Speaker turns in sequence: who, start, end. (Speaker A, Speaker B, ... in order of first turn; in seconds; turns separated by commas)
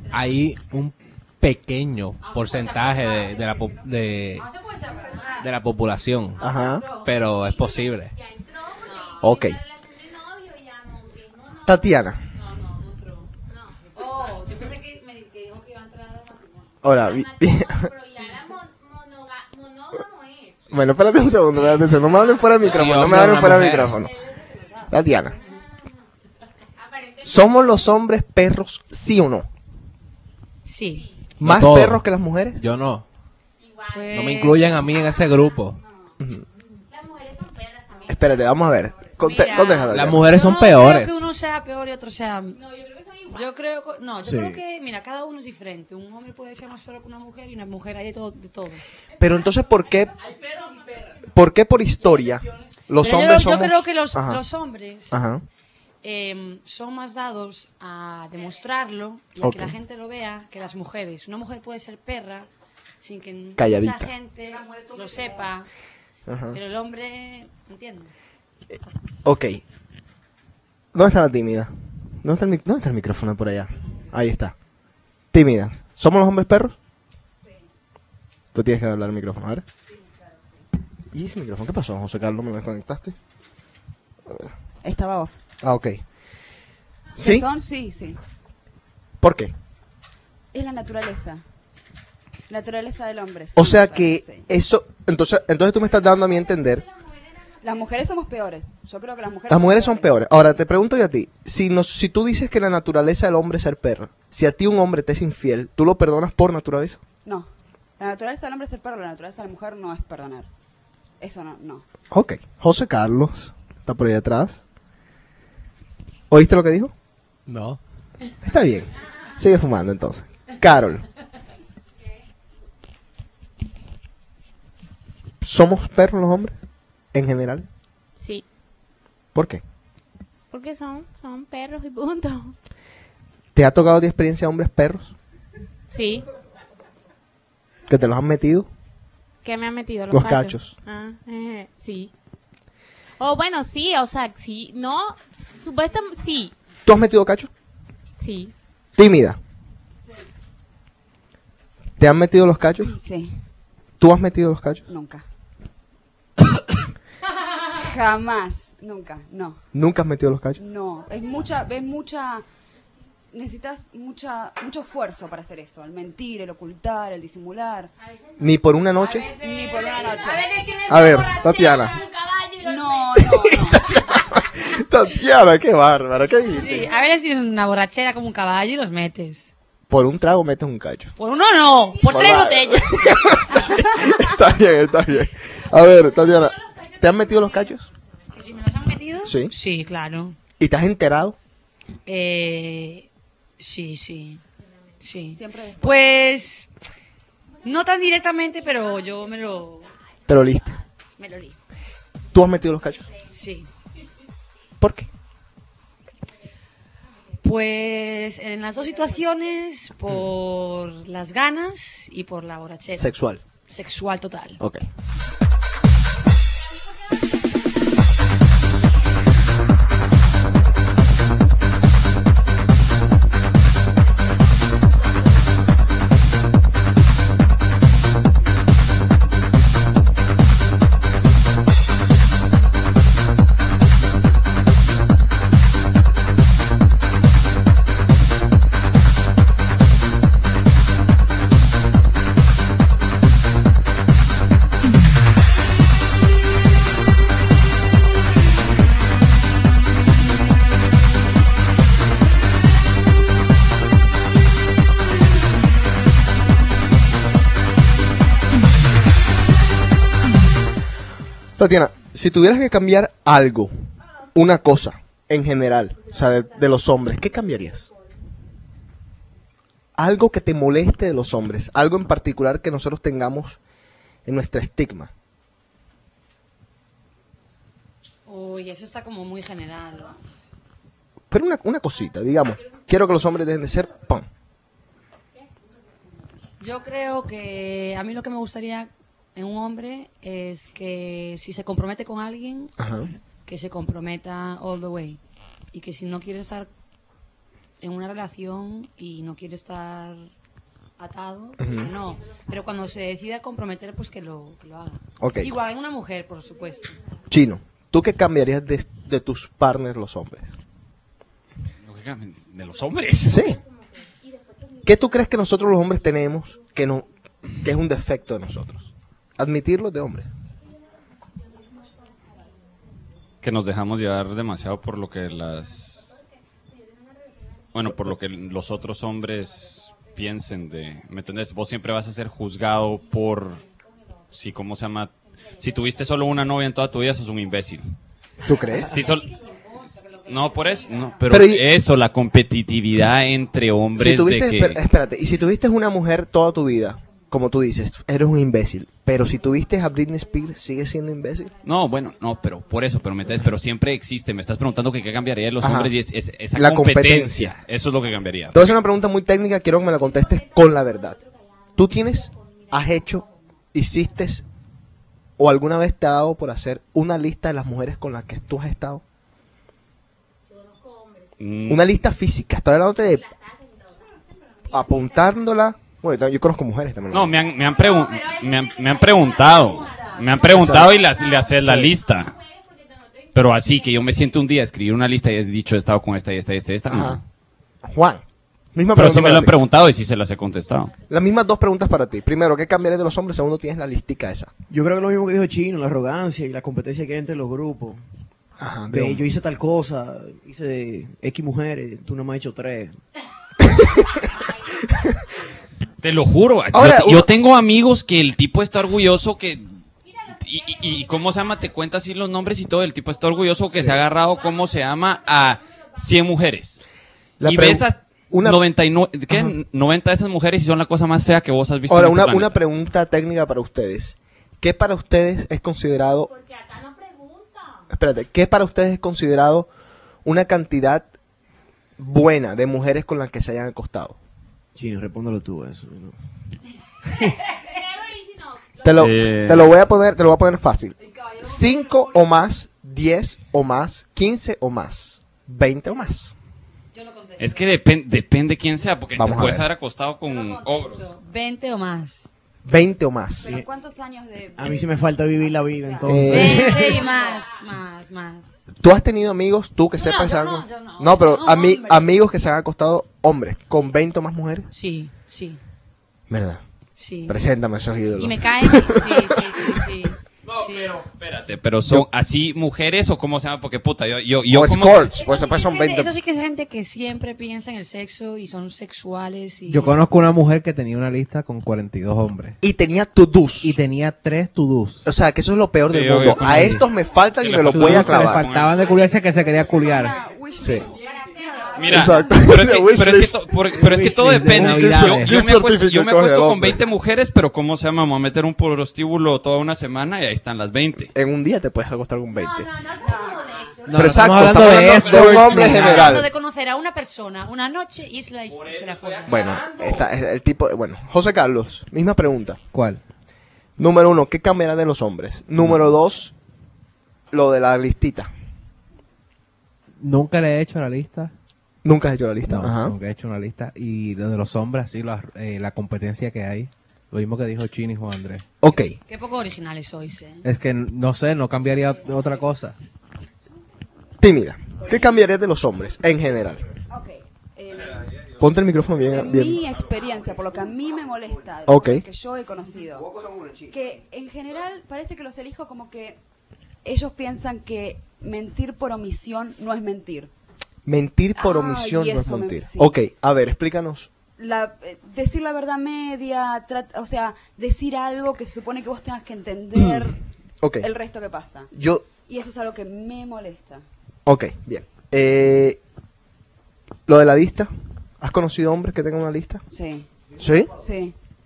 Speaker A: 0.1-4.5, Speaker B: 2.2-3.6, Speaker B: 4.3-5.5, Speaker A: 5.4-8.1, Speaker C: 6.4-6.9, Speaker B: 6.4-7.1, Speaker D: 8.1-8.8, Speaker B: 8.9-9.2, Speaker C: 9.2-9.6, Speaker D: 9.3-11.7, Speaker C: 11.7-12.2, Speaker B: 12.3-13.3, Speaker B: 13.9-16.8, Speaker C: 16.8-17.9, Speaker D: 16.9-20.6, Speaker C: 20.7-24.1, Speaker A: 22.6-24.0, Speaker B: 23.9-25.0, Speaker C: 24.9-25.4, Speaker D: 26.8-27.4, Speaker C: 27.2-29.5, Speaker B: 30.6-31.1, Speaker C: 31.4-32.6, Speaker A: 31.4-32.0, Speaker A: 32.6-33.0, Speaker D: 33.6-34.2, Speaker B: 33.9-34.9, Speaker A: 34.1-35.8, Speaker D: 36.9-38.2, Speaker C: 38.1-40.4, Speaker B: 39.2-42.6, Speaker A: 39.9-41.3, Speaker D: 42.6-43.3, Speaker B: 43.3-48.8, Speaker E: 44.2-44.6, Speaker C: 49.2-50.1, Speaker C: 51.3-54.4, Speaker B: 53.0-55.2, Speaker C: 55.1-55.4, Speaker B: 56.0-62.5, Speaker C: 59.4-59.7, Speaker B: 63.0-65.7, Speaker C: 63.6-64.1, Speaker C: 66.3-66.6, Speaker B: 66.5-68.1, Speaker C: 69.2-69.6, Speaker C: 70.9-71.7, Speaker C: 72.2-74.5, Speaker C: 75.3-76.8, Speaker C: 78.5-79.6, Speaker F: 79.9-80.6, Speaker C: 81.1-83.1, Speaker F: 84.8-85.4, Speaker C: 85.6-86.0, Speaker C: 87.2-87.5, Speaker F: 87.2-88.2, Speaker C: 89.2-89.5, Speaker F: 90.5-91.4, Speaker F: 92.5-94.5, Speaker C: 93.5-96.8, Speaker F: 97.6-100.2, Speaker C: 99.5-107.0, Speaker F: 108.0-110.5, Speaker F: 111.2-111.8, Speaker C: 112.1-114.6, Speaker C: 116.3-116.9, Speaker A: 117.5-117.8, Speaker C: 118.4-121.0, Speaker C: 125.4-126.5, Speaker C: 127.1-127.7, Speaker D: 128.2-128.4, Speaker C: 129.3-129.6, Speaker D: 130.5-132.6, Speaker C: 133.6-135.1, Speaker D: 135.9-136.2, Speaker C: 137.9-138.7, Speaker D: 139.4-142.1, Speaker C: 140.1-140.7, Speaker D: 143.2-146.5, Speaker C: 146.8-147.5, Speaker D: 148.2-148.5, Speaker C: 148.9-149.4, Speaker C: 152.0-152.9, Speaker F: 152.8-153.3, Speaker C: 154.0-154.8, Speaker F: 154.9-155.2, Speaker F: 157.8-159.6, Speaker C: 159.7-160.6, Speaker F: 160.6-162.4, Speaker F: 163.3-167.9, Speaker C: 168.4-169.3, Speaker B: 169.0-172.5, Speaker F: 169.3-170.5, Speaker C: 170.9-172.0, Speaker F: 172.6-173.9, Speaker C: 173.5-176.9, Speaker B: 176.5-179.5, Speaker C: 179.9-181.1, Speaker B: 181.2-183.2, Speaker C: 182.1-187.9, Speaker B: 188.3-190.4, Speaker C: 189.2-189.5, Speaker C: 190.6-191.4, Speaker B: 192.1-193.1, Speaker B: 193.6-194.4, Speaker B: 195.0-196.7, Speaker F: 195.3-196.2, Speaker B: 197.6-199.9, Speaker C: 200.3-200.8, Speaker B: 201.2-201.6, Speaker C: 202.3-203.1, Speaker B: 203.3-203.7, Speaker C: 204.8-205.1, Speaker B: 207.4-213.1, Speaker C: 212.9-213.4, Speaker B: 213.7-214.6, Speaker C: 261.6-263.7, Speaker C: 264.4-267.9, Speaker C: 269.9-273.6, Speaker C: 274.2-275.1, Speaker B: 278.3-280.2, Speaker C: 281.3-284.3, Speaker B: 286.6-292.7, Speaker C: 292.8-293.1, Speaker B: 293.4-295.2, Speaker B: 295.7-296.7, Speaker B: 297.8-300.3, Speaker B: 301.0-306.9, Speaker C: 301.6-301.9, Speaker C: 305.2-305.5, Speaker C: 307.3-310.5, Speaker G: 311.8-313.4, Speaker C: 313.3-313.6, Speaker C: 314.8-317.1, Speaker C: 317.6-320.3, Speaker G: 323.4-326.2, Speaker G: 327.7-333.6, Speaker G: 334.3-337.9, Speaker C: 338.4-338.9, Speaker G: 338.9-339.3, Speaker B: 339.1-341.2, Speaker G: 340.2-344.8, Speaker C: 341.3-341.7, Speaker C: 343.9-351.5, Speaker G: 351.6-358.7, Speaker C: 355.6-355.9, Speaker C: 356.6-357.5, Speaker C: 358.5-361.2, Speaker C: 361.8-364.4, Speaker C: 365.4-369.0, Speaker G: 371.4-371.8, Speaker C: 371.7-373.3, Speaker D: 373.3-373.9, Speaker C: 374.7-377.4, Speaker G: 377.1-382.4, Speaker B: 379.6-380.4, Speaker C: 380.4-381.0, Speaker C: 381.6-381.9, Speaker D: 382.4-383.0, Speaker G: 383.3-387.2, Speaker C: 386.9-387.2, Speaker C: 387.8-388.2, Speaker C: 388.7-389.5, Speaker G: 388.9-390.9, Speaker C: 391.1-394.5, Speaker E: 394.7-398.0, Speaker C: 398.6-399.2, Speaker E: 398.9-402.9, Speaker G: 406.0-409.8, Speaker C: 406.7-407.3, Speaker G: 410.4-416.8, Speaker C: 413.7-414.0, Speaker C: 417.4-418.6, Speaker G: 417.4-422.6, Speaker C: 419.3-419.5, Speaker C: 421.9-426.3, Speaker D: 426.3-427.9, Speaker C: 427.9-429.7, Speaker C: 430.2-431.1, Speaker C: 432.0-434.2, Speaker E: 434.8-436.1, Speaker D: 437.6-439.1, Speaker C: 438.8-446.3, Speaker G: 439.0-439.7, Speaker B: 441.3-441.6, Speaker B: 446.9-447.7, Speaker G: 447.4-451.1, Speaker C: 449.2-449.7, Speaker B: 450.2-452.3, Speaker C: 452.7-453.5, Speaker F: 453.4-457.2, Speaker E: 454.6-457.1, Speaker C: 456.1-456.7, Speaker B: 456.2-458.6, Speaker C: 458.8-464.7, Speaker B: 459.9-462.1, Speaker B: 464.7-465.6, Speaker C: 466.3-466.6, Speaker B: 467.0-467.4, Speaker C: 467.2-469.2, Speaker B: 468.2-471.1, Speaker G: 470.9-475.2, Speaker C: 474.5-476.1, Speaker B: 475.2-480.0, Speaker A: 479.7-482.6, Speaker C: 482.6-483.8, Speaker A: 483.6-485.1, Speaker C: 485.1-488.4, Speaker G: 485.9-488.8, Speaker A: 486.5-486.8, Speaker A: 487.7-490.1, Speaker F: 488.8-491.0, Speaker C: 490.6-490.9, Speaker F: 491.6-492.1, Speaker G: 491.7-501.1, Speaker C: 491.9-493.5, Speaker A: 493.8-495.4, Speaker C: 494.5-496.8, Speaker C: 501.1-502.7, Speaker B: 502.4-503.9, Speaker F: 503.0-503.8, Speaker A: 503.9-506.1, Speaker C: 503.9-506.3, Speaker B: 505.3-509.6, Speaker C: 509.2-512.6, Speaker A: 512.7-513.0, Speaker C: 513.8-516.3, Speaker C: 517.3-518.3, Speaker A: 520.0-521.3, Speaker C: 521.8-523.0, Speaker A: 522.5-528.5, Speaker C: 528.6-529.0, Speaker B: 528.7-530.5, Speaker A: 530.5-532.8, Speaker B: 531.6-532.4, Speaker C: 534.2-536.6, Speaker F: 536.9-538.1, Speaker C: 538.4-539.6, Speaker F: 539.0-543.2, Speaker C: 541.7-542.0, Speaker F: 543.7-546.2, Speaker F: 546.8-550.3, Speaker C: 550.9-554.1, Speaker F: 551.4-553.0, Speaker F: 554.4-560.2, Speaker F: 560.8-563.9, Speaker C: 561.7-562.0, Speaker C: 564.3-565.8, Speaker C: 567.1-569.6, Speaker F: 569.7-570.1, Speaker C: 570.4-570.7, Speaker F: 570.7-571.1